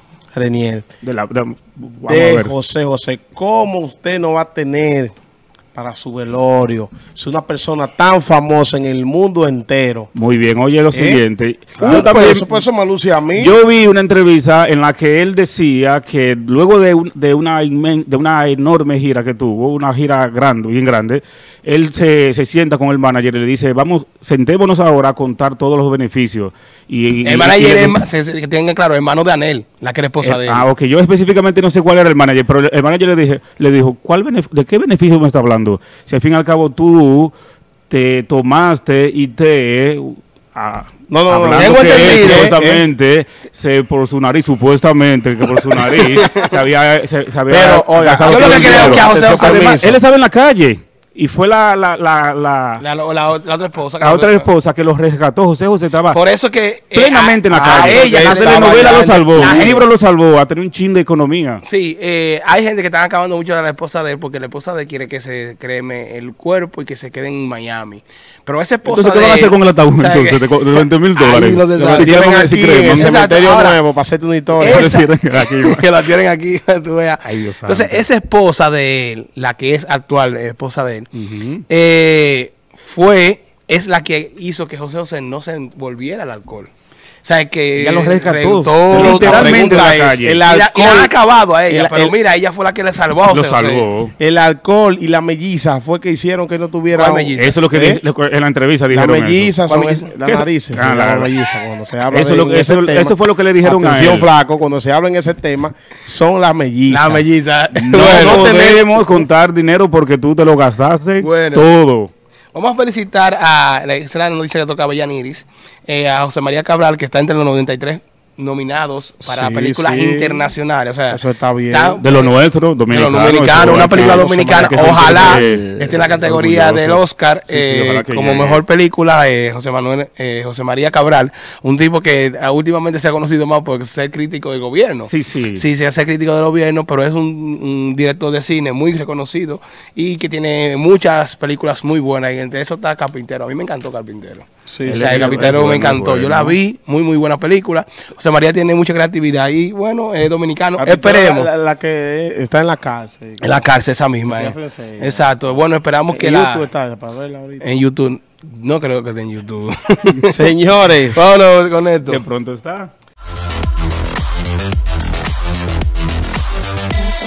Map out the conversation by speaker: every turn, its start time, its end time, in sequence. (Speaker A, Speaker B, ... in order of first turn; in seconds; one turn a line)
Speaker A: 0.3-0.9
Speaker B: 1.0-2.5
Speaker A: 2.1-5.1
Speaker A: 5.7-10.1
Speaker B: 10.1-12.6
Speaker A: 10.9-11.2
Speaker C: 11.8-12.1
Speaker A: 11.8-13.5
Speaker B: 13.3-27.9
Speaker C: 27.2-30.7
Speaker B: 30.2-37.3
Speaker B: 37.9-52.8
Speaker A: 41.1-42.8
Speaker C: 41.5-42.6
Speaker C: 45.9-46.5
Speaker A: 47.5-50.0
Speaker C: 48.2-49.8
Speaker C: 52.8-54.5
Speaker B: 54.0-56.2
Speaker C: 56.1-59.9
Speaker B: 56.9-61.6
Speaker A: 57.5-59.8
Speaker C: 61.6-72.1
Speaker B: 68.9-73.1
Speaker A: 71.9-74.9
Speaker C: 72.9-73.8
Speaker B: 74.6-75.9
Speaker C: 74.6-81.1
Speaker B: 77.2-78.0
Speaker B: 81.1-81.6
Speaker C: 81.7-86.7
Speaker C: 87.2-93.8
Speaker B: 87.8-90.4
Speaker A: 88.9-91.1
Speaker A: 91.7-92.1
Speaker B: 93.3-94.1
Speaker A: 94.2-98.0
Speaker C: 96.9-97.6
Speaker B: 97.4-99.6
Speaker A: 98.9-107.3
Speaker C: 99.7-100.1
Speaker B: 100.2-101.3
Speaker B: 102.1-104.3
Speaker C: 106.9-108.9
Speaker B: 107.7-112.1
Speaker A: 107.9-109.2
Speaker C: 111.2-111.7
Speaker C: 112.5-122.3
Speaker A: 119.2-120.5
Speaker A: 121.1-122.0
Speaker B: 122.0-128.6
Speaker C: 122.9-151.5
Speaker A: 123.6-126.1
Speaker B: 135.0-135.6
Speaker A: 144.7-145.6
Speaker B: 144.8-146.6
Speaker A: 150.8-153.6
Speaker C: 153.4-156.7
Speaker A: 154.3-155.3
Speaker A: 156.1-157.7
Speaker C: 157.6-160.5
Speaker A: 160.3-161.2
Speaker C: 161.0-162.2
Speaker B: 162.1-162.9